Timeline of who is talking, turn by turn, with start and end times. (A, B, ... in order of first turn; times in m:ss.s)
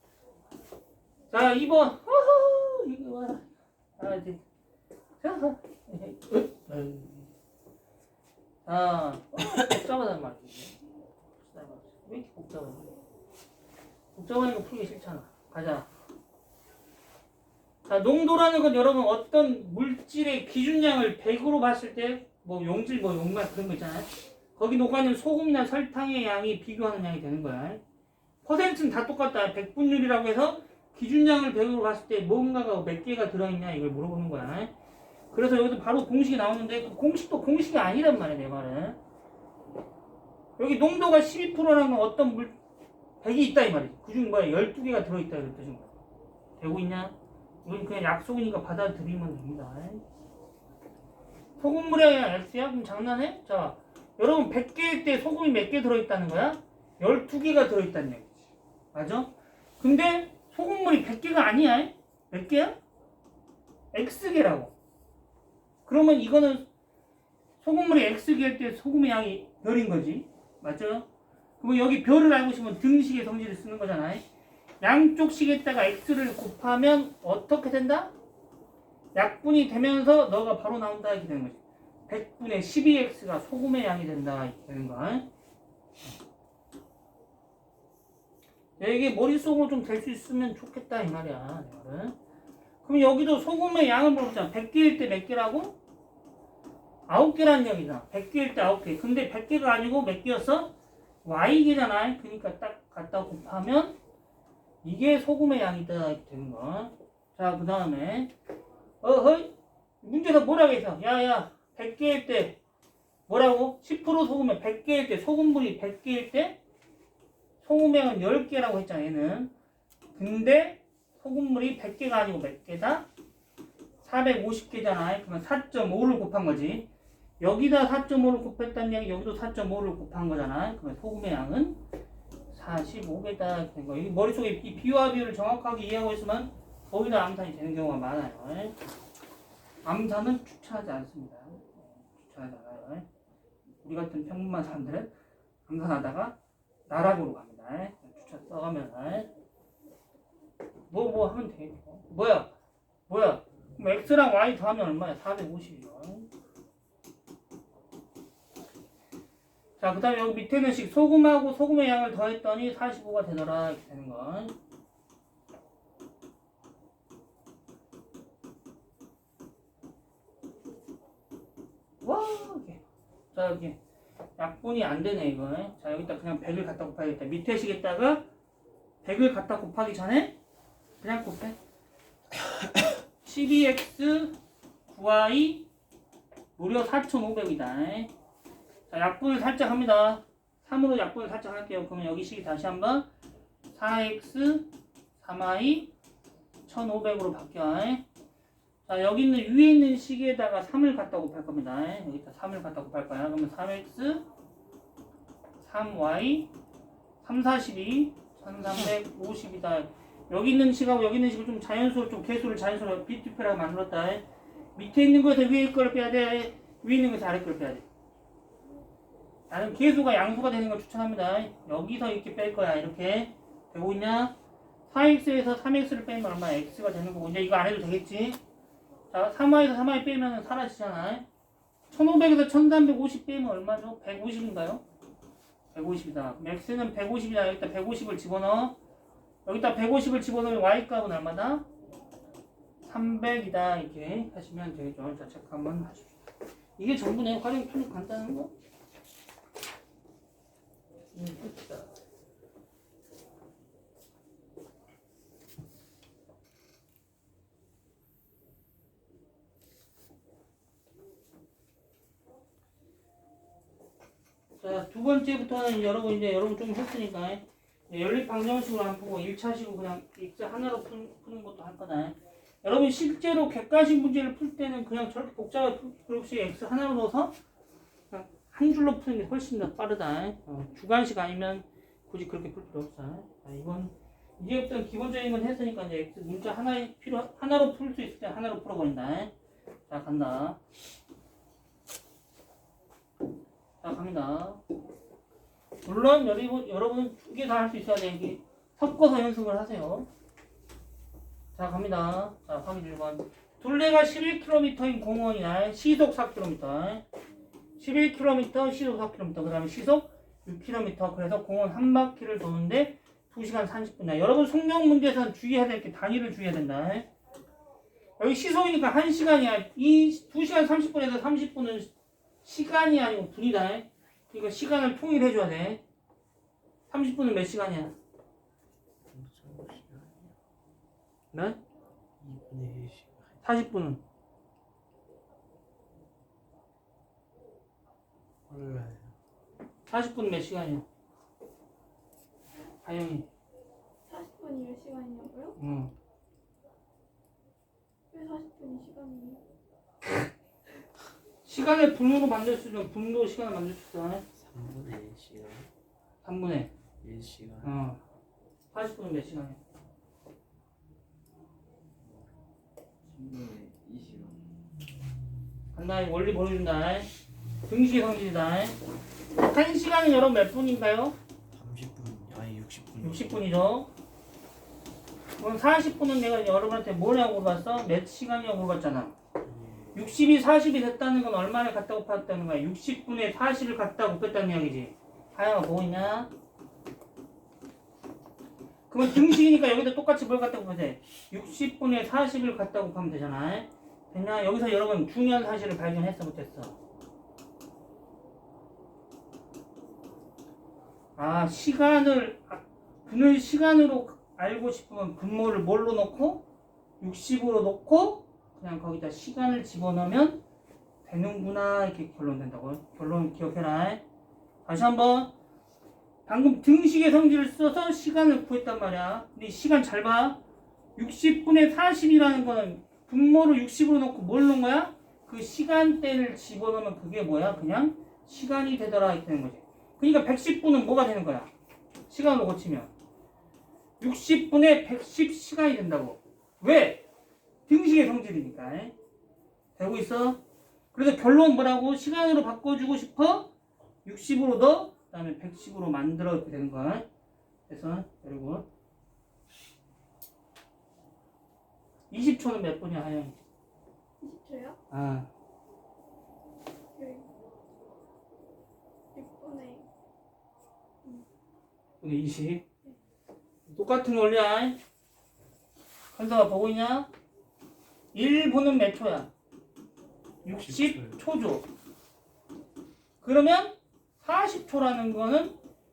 0:01.3-0:04.4 A
0:05.2-0:07.3 A
0:08.6-0:10.7 A
0:11.4-0:12.9 A
0:14.1-0:15.9 A
0:17.8-0:27.8 A
0:28.4-0:34.7 A
0:35.3-0:39.0 A
0:40.6-0:42.6 A
0:43.2-0:45.9 A
0:46.6-0:50.0 A
0:51.6-0:58.4 A
0:58.9-1:02.8 A
1:03.9-1:04.7 A
1:05.8-1:06.6 A
1:07.6-1:11.0 A
1:11.6-1:14.2 A
1:14.8-1:18.1 A
1:19.1-1:25.3 A
1:28.8-1:32.2 A
1:32.8-1:35.8 A
1:37.1-1:44.0 A
1:44.8-1:48.3 A
1:49.0-1:52.6 A
1:53.3-1:56.6 A
1:57.6-1:59.5 A
2:00.1-2:03.0 A
2:04.0-2:06.9 A
2:07.4-2:11.8 A
2:12.5-2:18.8 A
2:19.8-2:23.0 A
2:23.8-2:25.1 A
2:25.7-2:26.4 A
2:26.9-2:29.3 A
2:30.9-2:32.5 A
2:33.1-2:36.3 A
2:39.8-2:44.5 A
2:52.0-2:52.8 A
2:53.3-2:53.8 A
2:54.4-2:58.2 A
2:59.0-3:00.4 A
3:01.0-3:01.6 A
3:03.2-3:04.3 A
3:04.9-3:05.7 A
3:06.6-3:08.1 A
3:08.9-3:13.1 A
3:13.7-3:15.9 A
3:16.6-3:18.0 A
3:18.9-3:24.2 A
3:25.6-3:26.5 A
3:27.2-3:34.2 A
3:34.8-3:37.8 A
3:39.5-3:44.3 A
3:44.9-3:48.4 A
3:49.1-3:51.2 A
3:51.9-3:54.8 A
3:55.7-3:58.8 A
3:59.4-4:01.6 A
4:02.8-4:06.2 A
4:06.8-4:08.5 A
4:11.1-4:11.9 A
4:24.6-4:37.4 A
4:38.1-4:49.3 A
4:49.9-4:50.6 A
4:53.8-4:54.6 A
4:55.8-5:00.1 A
5:01.5-5:07.0 A
5:07.8-5:17.1 A
5:18.2-5:21.9 A
5:22.4-5:25.8 A
5:26.9-5:27.9 A
5:29.1-5:30.4 B
5:31.3-5:31.6 A
5:32.2-5:33.4 B
5:33.4-5:34.0 A
5:38.5-5:39.1 B
5:39.9-5:40.8 A
5:42.8-5:43.3 A
5:44.1-5:45.6 C
5:45.6-5:45.9 A
5:48.1-5:49.4 C
5:51.4-5:54.2 A
5:54.3-5:55.7 B
5:56.2-5:56.7 A
5:57.0-5:57.8 B
5:57.6-5:58.0 A
5:58.7-5:59.6 A
6:02.0-6:02.3 B
6:03.0-6:04.6 B
6:05.7-6:07.1 A
6:07.7-6:08.8 A
6:09.3-6:11.1 A
6:11.5-6:13.5 B
6:13.0-6:13.9 A
6:15.4-6:19.1 A
6:19.4-6:20.2 B
6:19.9-6:26.3 A
6:28.9-6:36.8 A
6:41.2-6:46.4 A
6:47.0-6:50.4 A
6:51.0-6:54.0 A
6:54.6-6:55.3 A
6:56.2-7:00.4 A
7:01.0-7:11.5 A
7:12.1-7:12.9 A
7:14.0-7:17.0 A
7:17.7-7:18.9 A
7:19.8-7:20.4 A
7:20.9-7:23.5 A
7:24.0-7:27.1 A
7:27.7-7:28.6 A
7:32.1-7:33.4 A
7:34.2-7:34.8 C
7:34.9-7:35.3 A
7:37.0-7:37.3 C
7:39.1-7:39.8 C
7:42.0-7:42.6 A
7:43.7-7:44.8 A
7:46.1-7:47.1 A
7:48.1-7:49.3 A
7:50.4-7:51.7 A
7:50.4-7:51.2 B
7:53.2-7:55.6 A